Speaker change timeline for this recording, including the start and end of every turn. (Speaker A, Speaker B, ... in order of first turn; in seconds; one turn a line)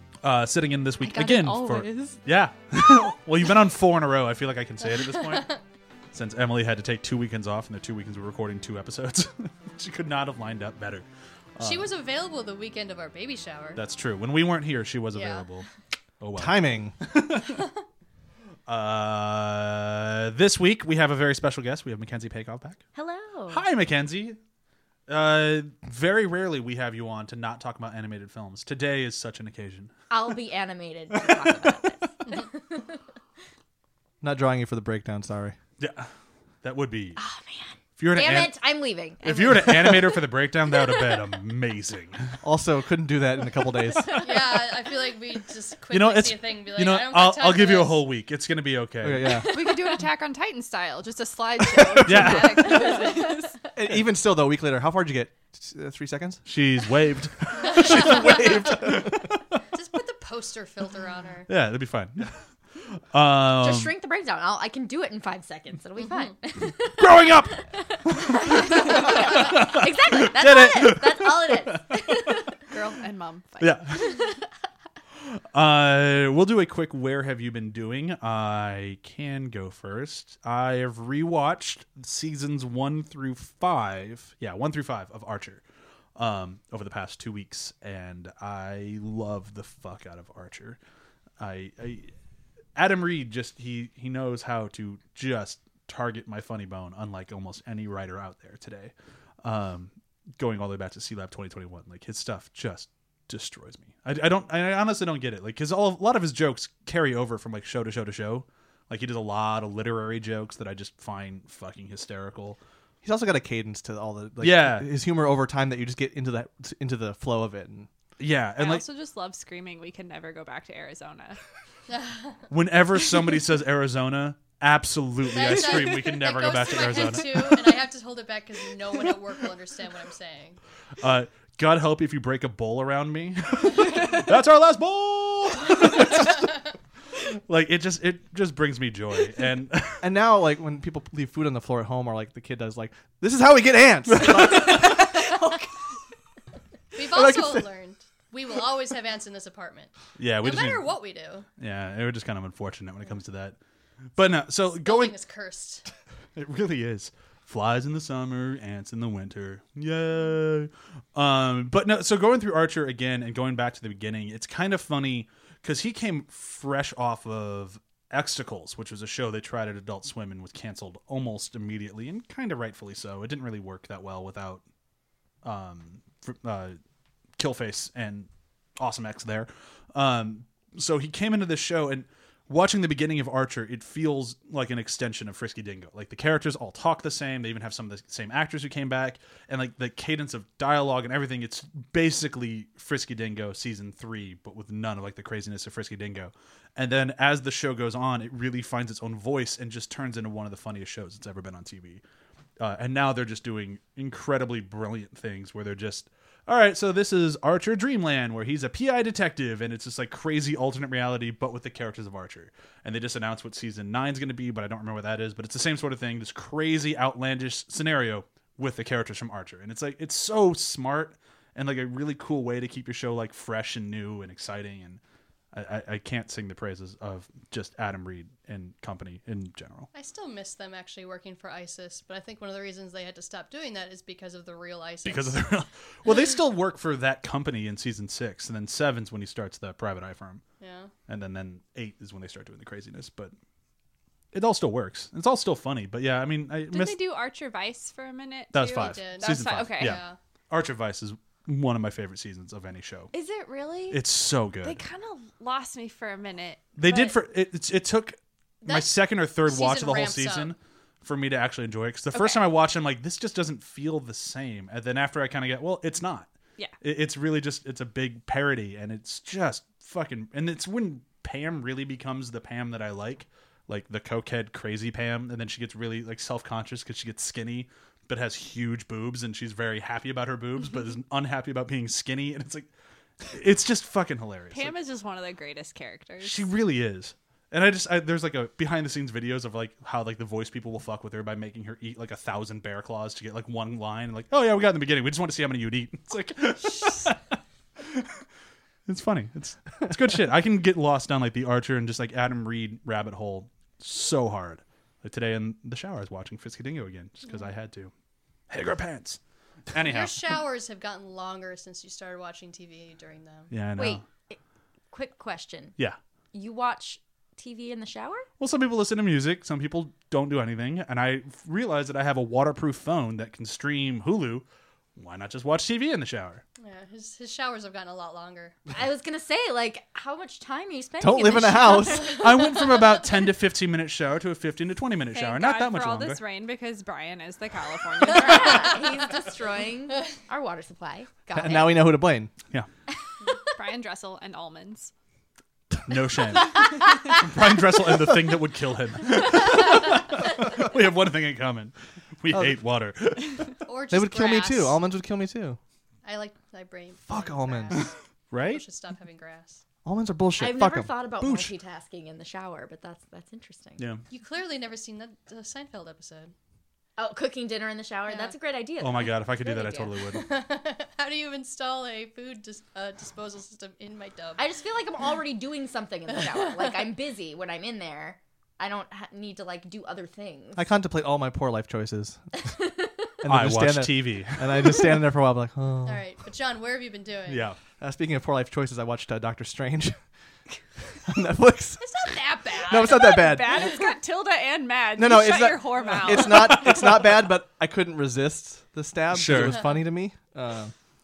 Speaker A: 0.2-5.5
Speaker B: 1.0-2.2
Speaker C: 4.9-5.6
Speaker A: 6.1-11.1
Speaker A: 11.6-11.9
Speaker C: 11.6-13.8
Speaker A: 13.8-15.7
Speaker C: 15.1-15.4
Speaker A: 16.2-17.6
Speaker D: 16.4-17.0
Speaker A: 18.7-22.8
Speaker E: 22.9-23.6
Speaker A: 23.5-24.4
Speaker A: 25.1-29.9
Speaker E: 30.1-33.0
Speaker D: 34.2-35.6
Speaker A: 35.8-36.1
Speaker A: 36.6-37.2
Speaker E: 37.2-40.2
Speaker A: 38.0-38.6
Speaker A: 39.2-42.4
Speaker E: 40.9-41.2
Speaker D: 42.4-44.3
Speaker C: 44.2-48.0
Speaker A: 45.9-49.4
Speaker D: 49.0-49.6
Speaker E: 49.3-49.9
Speaker B: 49.5-53.6
Speaker D: 51.9-52.6
Speaker A: 52.0-52.9
Speaker D: 53.7-56.4
Speaker A: 56.5-59.4
Speaker D: 57.6-59.3
Speaker C: 59.7-61.5
Speaker A: 61.5-63.9
Speaker E: 63.6-72.5
Speaker A: 67.0-72.4
Speaker B: 72.7-74.0
Speaker A: 73.6-74.0
Speaker A: 75.5-85.6
Speaker A: 86.2-90.8
Speaker A: 91.4-92.1
Speaker A: 92.8-98.9
Speaker A: 99.4-112.6
Speaker D: 113.0-117.9
Speaker A: 114.4-114.9
Speaker A: 118.2-118.9
Speaker B: 118.6-121.4
Speaker C: 121.9-122.4
Speaker A: 122.5-127.8
Speaker C: 125.3-130.6
Speaker A: 131.0-136.6
Speaker A: 137.2-140.1
Speaker D: 140.0-145.3
Speaker A: 144.2-144.9
Speaker C: 146.9-151.5
Speaker D: 147.0-147.7
Speaker A: 150.2-150.9
Speaker A: 151.6-153.6
Speaker A: 154.2-155.2
Speaker C: 154.8-155.8
Speaker A: 156.4-174.6
Speaker A: 175.4-176.8
Speaker A: 177.4-202.0
Speaker A: 202.6-225.0
Speaker A: 225.5-229.9
Speaker C: 229.9-235.4
Speaker A: 235.1-240.4
Speaker C: 240.6-240.9
Speaker A: 241.1-243.3
Speaker A: 244.3-247.0
Speaker B: 246.7-250.0
Speaker A: 248.5-253.1
Speaker C: 248.7-250.2
Speaker B: 253.1-254.0
Speaker A: 253.9-254.8
Speaker B: 254.6-257.1
Speaker A: 256.8-266.3
Speaker C: 258.6-258.9
Speaker C: 259.5-260.5
Speaker B: 262.1-262.5
Speaker A: 266.8-282.7
Speaker A: 283.2-284.8
Speaker B: 284.5-286.5
Speaker A: 286.2-297.2
Speaker A: 297.8-298.2
Speaker A: 298.9-307.9
Speaker A: 308.5-309.2
Speaker A: 309.7-310.4
Speaker C: 309.8-313.5
Speaker A: 313.5-314.0
Speaker E: 313.8-314.4
Speaker E: 314.9-315.8
Speaker E: 316.3-318.3
Speaker A: 318.4-324.4
Speaker A: 325.0-326.4
Speaker C: 326.6-328.6
Speaker E: 328.7-332.6
Speaker D: 331.0-332.2
Speaker A: 332.1-336.2
Speaker B: 335.1-338.9
Speaker E: 338.1-342.0
Speaker D: 341.3-342.3
Speaker B: 343.6-344.9
Speaker A: 345.9-353.6
Speaker D: 352.3-352.6
Speaker C: 353.6-354.8
Speaker D: 353.9-355.6
Speaker C: 356.0-359.6
Speaker D: 357.1-357.9
Speaker A: 358.3-358.6
Speaker D: 359.8-361.5
Speaker E: 360.4-363.8
Speaker C: 364.1-366.3
Speaker E: 367.0-370.1
Speaker C: 368.1-368.3
Speaker A: 368.8-370.2
Speaker C: 370.1-374.4
Speaker E: 374.4-380.7
Speaker D: 380.6-382.6
Speaker E: 382.4-383.1
Speaker D: 383.2-386.1
Speaker A: 383.3-384.6
Speaker C: 385.8-387.5
Speaker A: 387.3-387.6
Speaker D: 387.8-390.0
Speaker D: 391.1-393.6
Speaker C: 391.8-393.7
Speaker B: 392.8-396.9
Speaker D: 395.0-400.7
Speaker A: 399.1-399.7